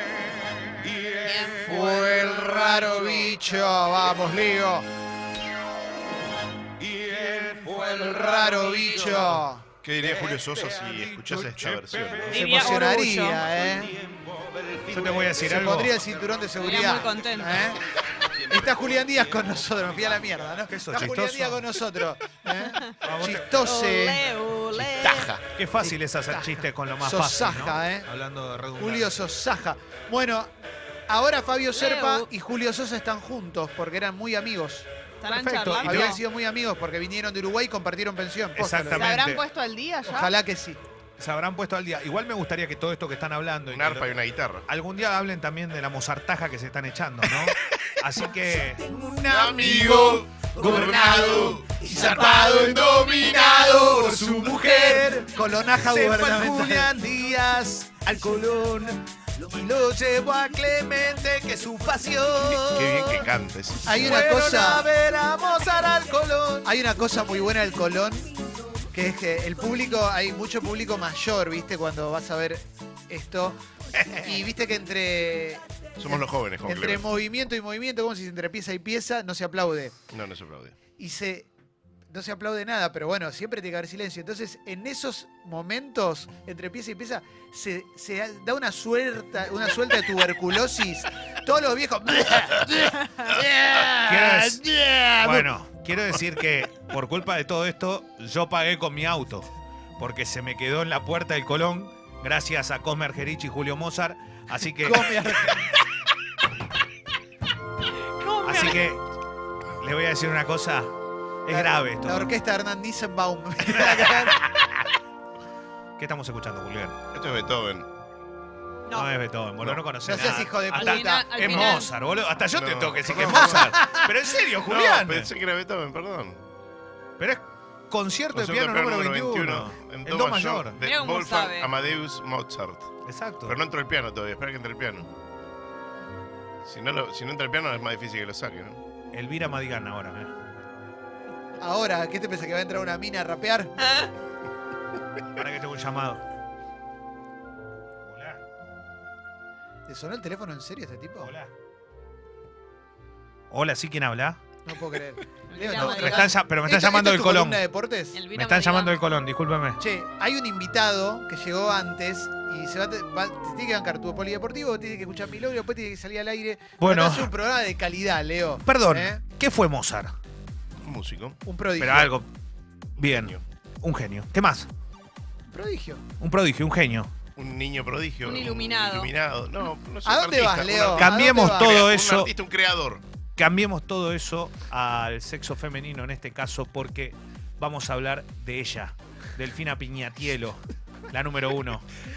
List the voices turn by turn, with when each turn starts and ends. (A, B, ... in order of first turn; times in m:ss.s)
0:01.1-0:01.9 A
0:01.6-0:04.9 B
0:07.0-0:07.8 C
0:07.6-0:09.6 B
0:08.8-0:09.4 C
0:09.8-0:12.4 D
0:11.0-0:12.8 C
0:12.3-0:13.4 A
0:12.3-0:14.0 B
0:14.8-0:16.0 C
0:15.4-0:17.8 B
0:16.6-0:17.6 A
0:18.5-0:24.2 B
0:20.7-0:21.8 C
0:22.9-0:23.6 C
0:23.6-0:25.4 A
0:24.7-0:29.3 C
0:25.0-0:25.4 D
0:25.8-0:28.1 B
0:28.8-0:30.5 B
0:31.1-0:34.9 B
0:31.7-0:32.3 A
0:35.2-0:36.2 A
0:35.2-0:36.2 C
0:35.8-0:39.1 B
0:38.5-0:39.4 C
0:38.9-0:40.3 A
0:40.0-0:40.8 B
0:41.2-1:03.3 C
0:43.7-0:44.7 D
0:49.2-0:51.6 D
0:50.6-0:56.9 B
1:02.6-1:04.2 D
1:03.8-1:04.8 B
1:03.9-1:06.7 C
1:06.6-1:08.3 B
1:08.9-1:13.6 B
1:13.9-1:14.4 C
1:14.1-1:20.0 B
1:16.0-1:17.1 D
1:20.1-1:20.7 D
1:21.0-1:21.5 B
1:22.1-1:35.5 B
1:33.9-1:45.6 C
1:44.8-1:45.6 B
1:48.2-1:48.9 A
1:48.4-1:49.0 C
1:49.8-1:50.9 C
1:51.4-1:52.4 C
1:51.5-1:54.4 B
1:53.6-1:54.9 C
1:56.0-1:57.0 C
1:57.1-1:57.9 D
1:58.9-2:05.3 C
1:59.6-1:59.8 D
2:00.0-2:01.8 B
2:00.3-2:01.9 A
2:02.4-2:03.8 D
2:03.7-2:04.1 B
2:04.6-2:06.4 D
2:07.2-2:10.8 C
2:08.3-2:12.9 D
2:10.8-2:11.7 A
2:13.0-2:13.6 C
2:13.4-2:15.1 D
2:16.6-2:18.8 D
2:19.1-2:20.3 C
2:21.6-2:23.9 B
2:25.3-2:26.2 C
2:28.0-2:28.4 C
2:29.9-2:31.3 B
2:31.2-2:31.5 C
2:33.5-2:34.4 C
2:34.6-2:38.2 B
2:35.5-2:36.4 A
2:35.7-2:37.6 C
2:38.1-2:39.0 A
2:38.3-2:39.8 C
2:39.8-2:49.2 B
2:46.8-2:47.3 C
2:48.6-2:50.1 C
2:50.8-2:51.4 D
2:51.4-2:52.1 B
2:51.8-2:52.3 C
2:53.0-2:54.7 C
2:53.0-2:53.4 D
2:55.5-2:56.0 B
2:56.2-2:57.1 C
2:57.4-3:03.0 D
2:58.2-2:59.1 A
3:00.0-3:01.8 B
3:00.9-3:02.3 C
3:03.4-3:12.0 C